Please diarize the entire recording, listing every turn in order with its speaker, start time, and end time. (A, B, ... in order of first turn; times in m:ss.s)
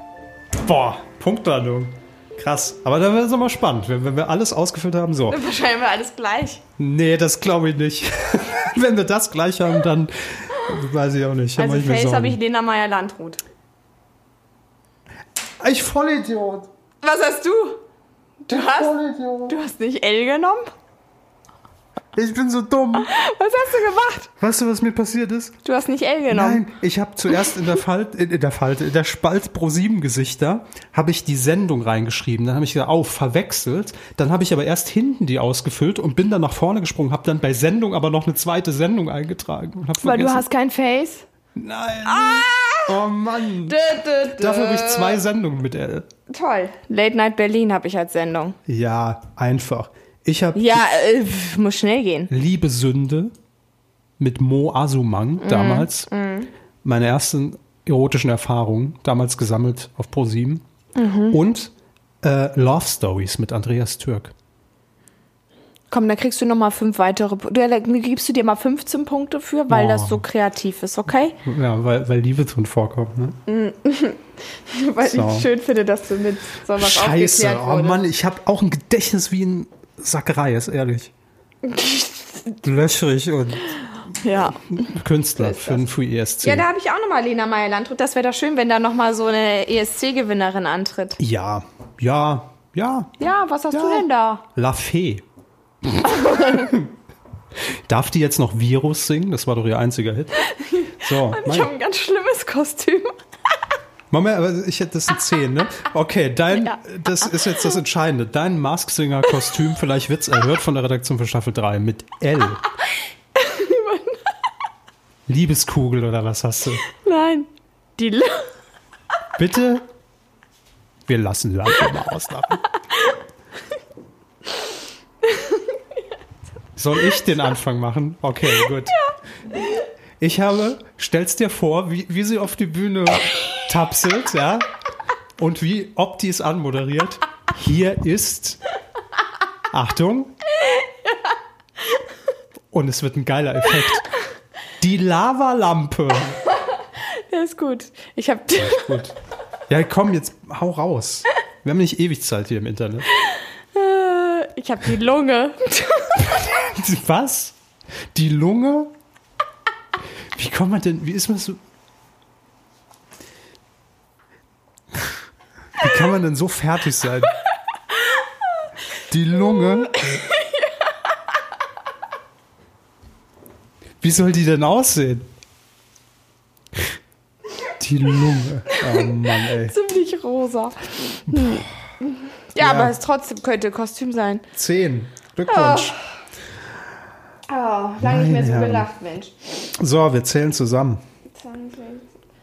0:00.6-0:05.4 A
0:05.3-0:06.6 B
0:06.8-0:12.4 A
0:11.6-0:13.4 B
0:15.6-0:16.7 A
0:17.0-0:17.8 B
0:18.4-0:18.9 B
0:18.5-0:19.6 A
0:19.5-0:20.7 B
0:22.1-0:23.1 A
0:23.0-0:24.3 B
0:24.4-0:25.6 A
0:25.6-0:26.6 B
0:26.3-0:40.4 A
0:40.0-0:41.2 B
0:41.5-0:46.1 A
0:42.0-0:43.0 B
0:43.6-0:45.2 B
0:46.3-0:48.6 B
0:48.7-0:50.8 A
0:50.5-0:52.3 B
0:52.3-0:53.3 A
0:54.2-0:56.1 A
0:55.4-0:56.5 B
0:56.8-1:00.6 A
1:00.9-1:01.4 B
1:01.3-1:04.3 A
1:05.9-1:11.4 B
1:09.7-1:10.2 A
1:11.4-1:13.4 A
1:13.5-1:18.0 B
1:15.0-1:15.5 A
1:16.8-1:21.1 A
1:21.6-1:22.5 B
1:22.6-1:23.8 A
1:24.2-1:24.8 B
1:24.7-1:26.6 A
1:25.4-1:25.8 B
1:26.4-1:31.2 B
1:31.2-1:33.2 A
1:33.2-1:34.4 B
1:33.7-1:35.2 A
1:35.8-1:36.8 A
1:36.1-1:36.7 B
1:37.7-1:40.4 A
1:40.4-1:43.2 B
1:41.0-1:41.7 A
1:44.1-1:52.6 A
1:53.3-1:54.2 B
1:55.3-1:56.8 A
1:56.9-1:58.5 B
1:59.4-1:59.8 A
2:01.1-2:02.6 A
2:05.2-2:05.6 B
2:06.8-2:09.0 A
2:10.2-2:14.7 A
2:15.4-2:18.6 A
2:19.7-2:20.3 A
2:20.6-2:21.3 B
2:22.7-2:24.0 A
2:24.8-2:26.4 A
2:27.0-2:29.0 B
2:28.5-2:29.1 A
2:29.7-2:33.1 A
2:33.3-2:36.5 B
2:36.4-2:37.5 A
2:38.1-2:38.9 A
2:40.3-2:41.6 A
2:45.8-2:47.3 A
2:49.1-2:50.1 A
2:49.9-2:50.7 B
2:54.0-2:55.2 A
2:57.8-2:59.7 A
2:58.8-3:04.4 B
3:01.3-3:01.6 A
3:02.6-3:02.9 A
3:04.5-3:06.0 A
3:05.5-3:06.0 B
3:07.5-3:09.4 B
3:08.0-3:08.9 A
3:09.8-3:11.0 A
3:11.3-3:12.1 B